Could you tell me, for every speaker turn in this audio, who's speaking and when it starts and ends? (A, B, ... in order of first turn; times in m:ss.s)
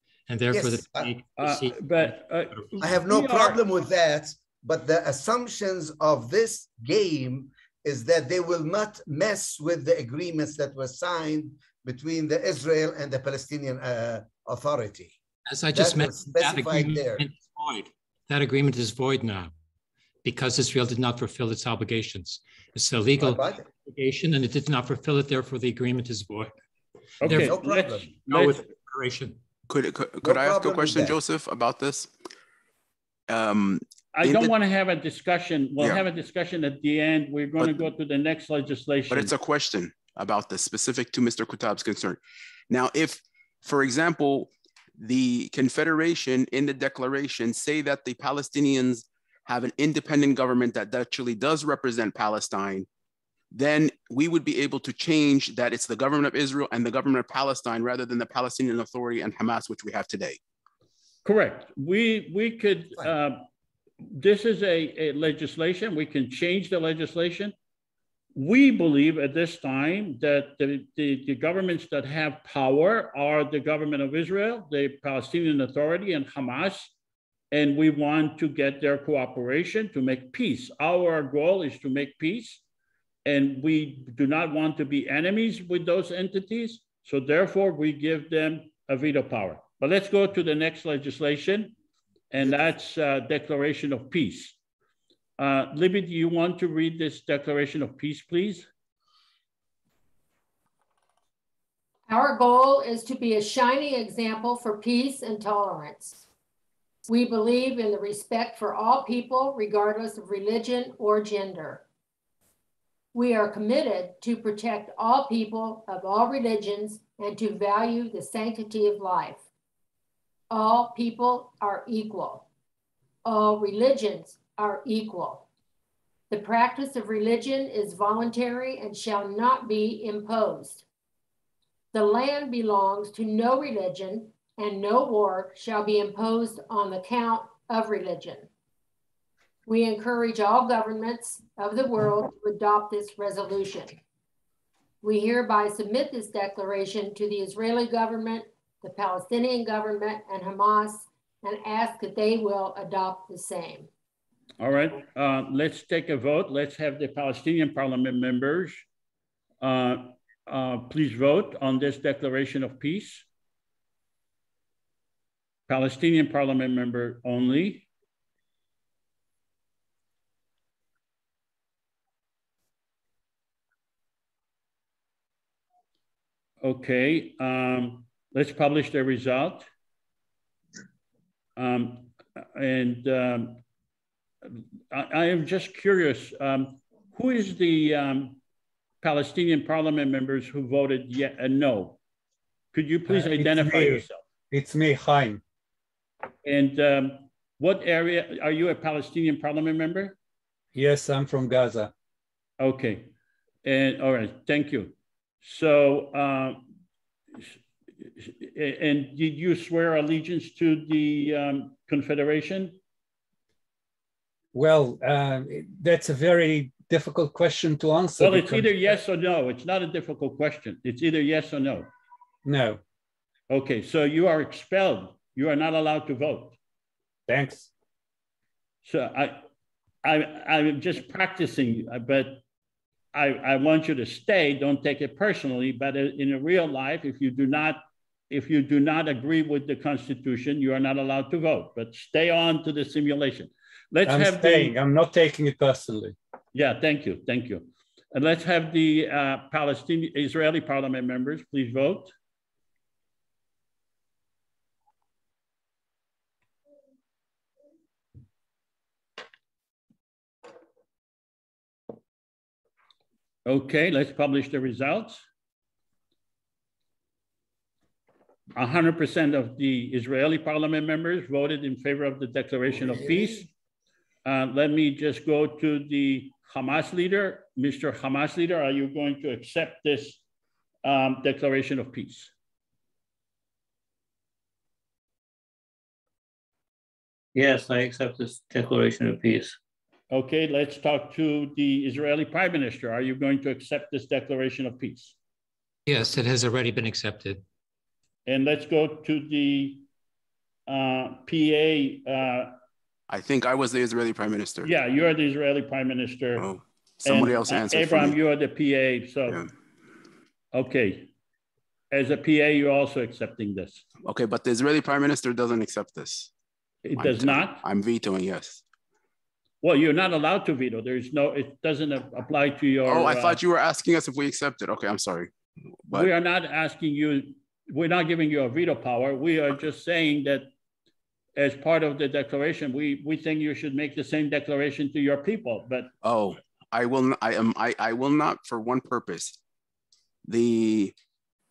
0:00.3-0:02.1 A
0:00.5-0:01.1 B
0:01.4-0:03.6 C
0:02.8-0:15.2 B
0:15.5-0:19.5 A
0:15.7-0:17.2 B
0:20.2-0:26.5 A
0:23.2-0:23.7 B
0:27.2-0:28.6 C
0:27.2-0:28.2 B
0:27.2-0:27.6 A
0:28.3-0:29.4 A
0:29.7-0:32.1 D
0:30.2-0:31.2 B
0:33.3-0:34.5 D
0:34.1-0:39.3 C
0:37.6-0:37.8 D
0:39.1-0:52.9 D
0:53.5-1:00.4 D
1:01.2-1:03.4 C
1:04.0-1:07.5 C
1:08.3-1:16.9 C
1:17.5-1:22.6 C
1:23.2-1:31.7 C
1:32.3-1:34.6 C
1:35.4-1:38.7 C
1:42.1-1:46.2 E
1:47.1-1:51.8 E
1:53.1-1:59.5 E
2:00.5-2:02.5 E
2:03.2-2:05.5 E
2:06.3-2:10.8 E
2:11.9-2:18.5 E
2:19.6-2:24.0 E
2:25.0-2:33.9 E
2:34.6-2:38.8 C
2:39.6-2:43.2 C
2:45.7-2:47.8 C
2:56.6-2:59.6 C
3:01.6-3:03.6 C
3:04.4-3:08.4 C
3:09.0-3:12.0 C
3:12.7-3:14.2 C
3:13.1-3:15.4 F
3:16.4-3:20.1 C
3:20.7-3:21.9 F
3:22.6-3:23.1 C
3:23.6-3:26.6 C
3:28.2-3:32.8 C
3:34.5-3:38.9 F
3:38.2-3:41.9 C
3:42.4-3:42.8 F
3:43.5-3:46.6 C
3:47.3-3:47.7 F
3:48.8-3:49.4 C
3:50.0-3:52.4 C
3:53.1-4:04.7 C
4:04.0-4:06.1 F
4:06.5-4:12.1 C
4:23.4-4:25.2 C
4:28.5-4:33.5 C
4:34.2-4:40.2 C
4:40.8-4:42.3 C
4:47.3-4:49.6 G
4:50.1-4:55.1 C
4:55.9-4:57.4 A
4:58.2-4:59.8 C
5:00.7-5:02.5 C
5:03.1-5:04.7 D
5:04.6-5:06.4 C
5:06.4-5:08.2 D
5:07.0-5:09.4 C
5:10.5-5:11.1 C
5:11.9-5:13.8 C
5:14.0-5:16.3 D
5:16.8-5:17.6 C
5:17.0-5:18.6 D
5:19.6-5:23.4 C
5:22.8-5:25.3 D
5:25.9-5:30.5 C
5:31.4-5:35.9 C
5:36.0-5:39.4 D
5:40.3-5:40.9 D